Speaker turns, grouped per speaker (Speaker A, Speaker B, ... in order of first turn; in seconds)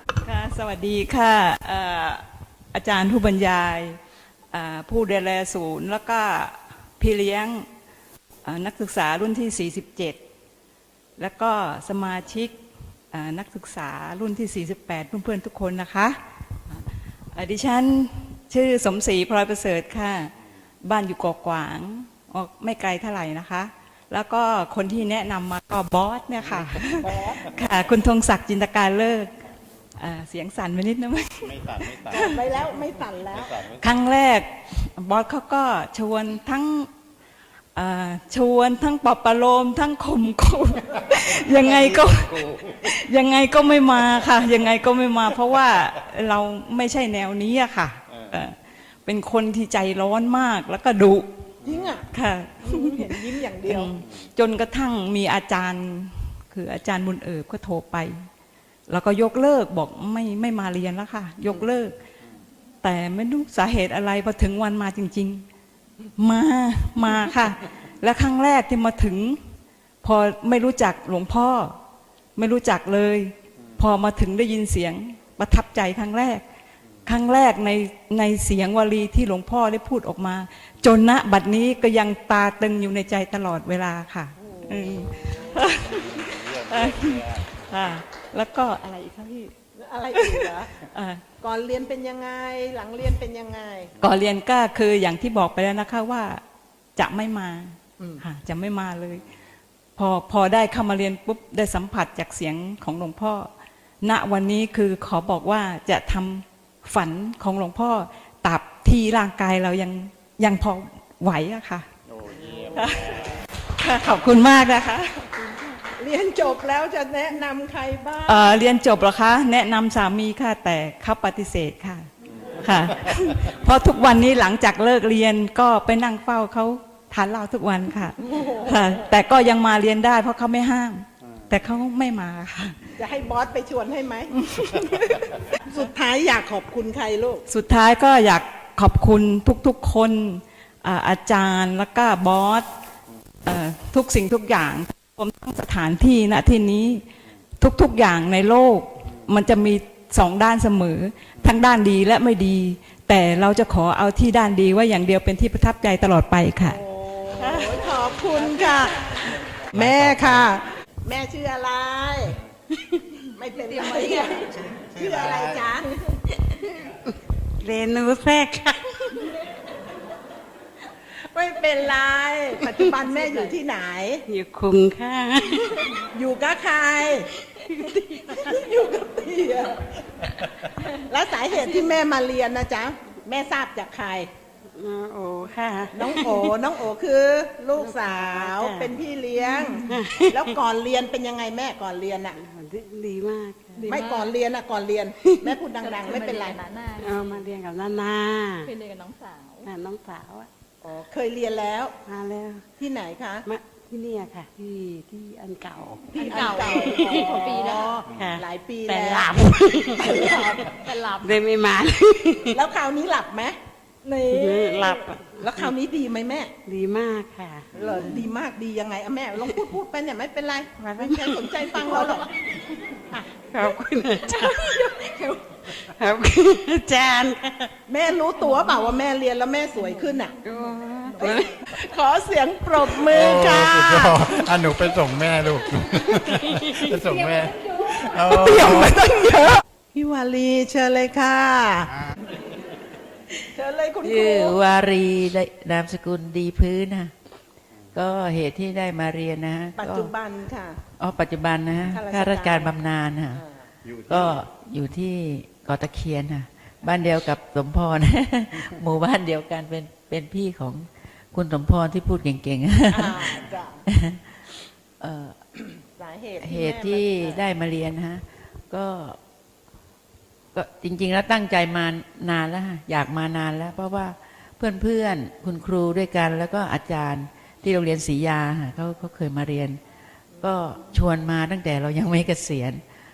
Speaker A: 0.2-4.0, 4.5-7.7, 8.4-10.2, 11.2-12.5, 13.1-16.2, 17.3-29.3, 30.0-32.4, 33.8-36.9, 37.7-51.3, 52.1-58.2, 58.9-62.0, 62.8-65.4, 66.2-69.4, 70.0-71.8, 72.3-76.4, 77.0-89.5, 90.1-91.2, 94.0-96.4, 97.0-99.2, 100.0-103.5, 104.0-111.9, 112.7-115.6, 118.3-122.1, 122.6-132.8, 134.4-135.3, 137.5-142.7, 143.4-147.0, 147.6-156.8, 157.4-157.8
Speaker B: 26.9-27.5, 32.0-33.6, 51.6-52.1, 52.6-54.0, 84.4-85.5, 89.7-90.7, 91.4-93.9, 115.9-118.6, 128.2-129.1, 132.9-134.3, 135.2-137.4, 156.6-162.4, 163.3-166.1, 171.3-174.2, 175.9-177.3, 177.8-180.2, 180.8-184.3, 185.9-192.4, 193.8-196.6, 200.8-201.9, 202.8-203.5, 206.1-210.7, 212.5-216.5, 217.7-222.3, 227.9-230.3, 231.1-234.7, 238.1-241.9, 243.5-244.6, 249.8-250.8, 251.9-252.8, 253.3-253.7, 262.9-263.8, 265.6-267.4
Speaker C: 159.7-160.2, 164.7-165.5, 233.1-239.1
Speaker D: 163.9-164.4, 193.8-194.3, 195.8-197.5, 198.6-199.7, 206.2-208.0, 210.8-211.4, 237.4-237.8
Speaker E: 167.6-169.2, 172.7-172.9, 174.3-175.9, 177.6-178.4, 184.7-186.5, 187.8-188.9, 189.6-190.5, 192.3-193.9, 195.2-195.6, 197.0-198.7, 199.6-200.5, 202.0-202.7, 203.4-207.5, 208.1-210.4, 211.2-212.6, 214.3-215.6, 216.7-217.7, 221.1-222.1, 223.5-225.0, 225.7-227.7, 230.4-231.7
Speaker F: 244.0-247.1, 247.9-250.1, 251.0-253.4, 254.1-263.3, 263.9-264.2, 265.0-265.4, 266.4-269.2, 270.5-279.8, 280.4-282.8